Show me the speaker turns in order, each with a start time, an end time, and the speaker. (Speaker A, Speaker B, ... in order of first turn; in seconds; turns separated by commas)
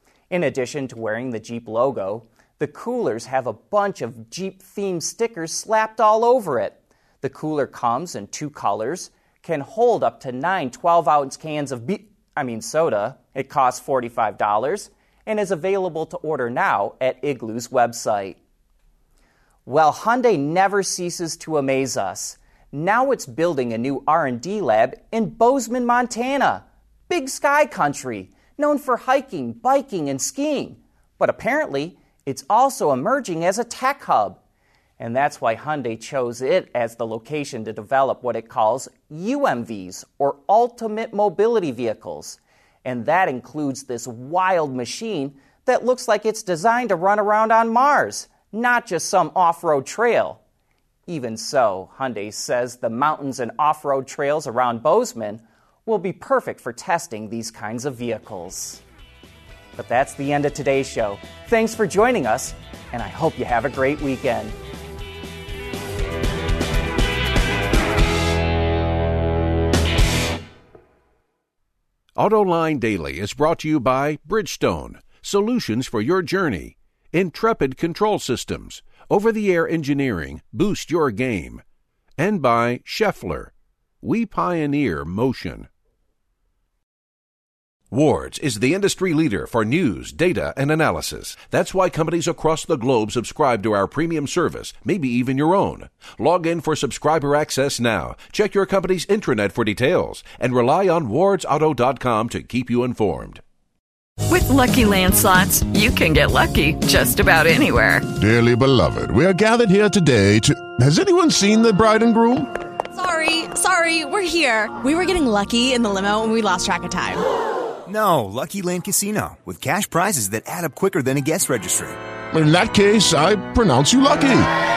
Speaker A: 0.3-18.4, Speaker A: 19.7-34.4, Speaker A: 35.0-50.4, Speaker A: 51.1-58.8, Speaker A: 59.8-64.5, Speaker B: 72.2-81.6, Speaker B: 82.2-85.7, Speaker B: 87.9-103.4, Speaker C: 104.3-108.0, Speaker D: 108.2-112.5, Speaker E: 113.0-117.2, Speaker F: 117.9-122.0, Speaker D: 122.3-124.5